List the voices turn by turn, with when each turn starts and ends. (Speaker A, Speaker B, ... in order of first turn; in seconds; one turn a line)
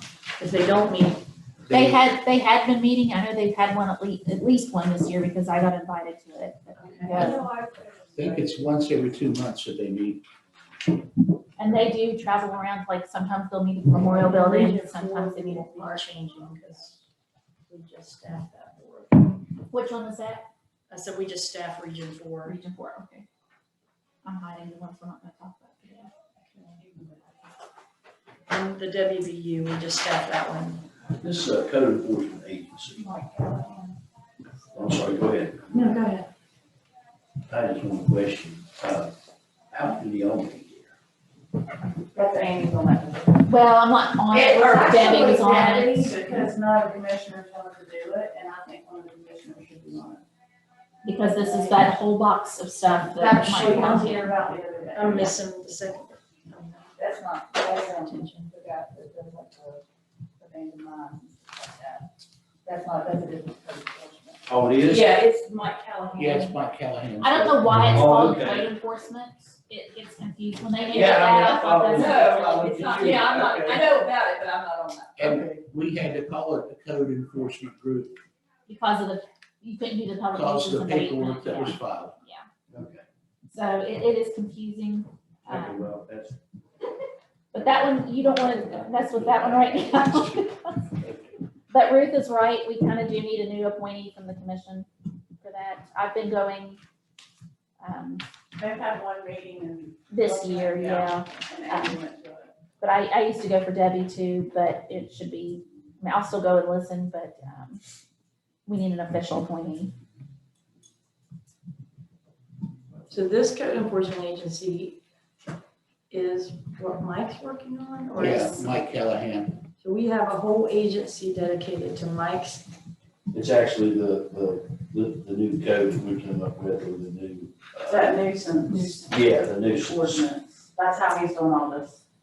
Speaker A: 0.4-1.2
Speaker B: 1.7-2.0
Speaker C: 1.7-7.4
Speaker A: 6.8-7.4
Speaker D: 7.1-8.6
Speaker B: 8.1-10.2
Speaker C: 11.6-15.8
Speaker A: 13.9-17.0
Speaker A: 17.7-19.4
Speaker C: 19.7-20.4
Speaker A: 20.9-22.6
Speaker C: 22.4-23.2
Speaker C: 24.2-26.1
Speaker A: 26.4-26.9
Speaker A: 28.5-30.9
Speaker E: 31.1-33.1
Speaker D: 33.1-33.9
Speaker E: 34.7-35.7
Speaker A: 35.7-36.3
Speaker E: 37.5-39.1
Speaker E: 39.7-40.9
Speaker D: 42.1-43.4
Speaker C: 43.5-46.2
Speaker D: 44.3-50.2
Speaker C: 51.0-54.1
Speaker D: 51.3-51.7
Speaker D: 53.1-55.3
Speaker A: 53.5-54.2
Speaker A: 54.9-56.9
Speaker D: 57.0-59.8
Speaker A: 57.5-58.4
Speaker D: 60.4-62.0
Speaker D: 62.6-66.6
Speaker E: 64.5-65.2
Speaker B: 66.2-68.3
Speaker C: 67.2-73.2
Speaker E: 67.8-68.7
Speaker D: 70.9-75.5
Speaker E: 70.9-73.7
Speaker B: 71.0-73.8
Speaker B: 75.2-78.2
Speaker C: 78.7-82.5
Speaker B: 80.3-82.1
Speaker E: 82.7-83.0
Speaker C: 83.5-85.9
Speaker E: 85.5-86.3
Speaker C: 87.5-90.8
Speaker E: 87.5-91.3
Speaker C: 91.7-94.9
Speaker C: 95.4-96.8
Speaker C: 97.8-98.2
Speaker D: 98.6-102.5
Speaker C: 100.1-102.0
Speaker C: 102.8-107.8
Speaker C: 108.7-109.9
Speaker A: 113.1-115.0
Speaker A: 116.1-118.7
Speaker B: 118.2-119.6
Speaker A: 119.8-122.7
Speaker E: 123.3-128.2
Speaker D: 127.9-132.0
Speaker A: 128.7-129.0
Speaker E: 129.1-130.2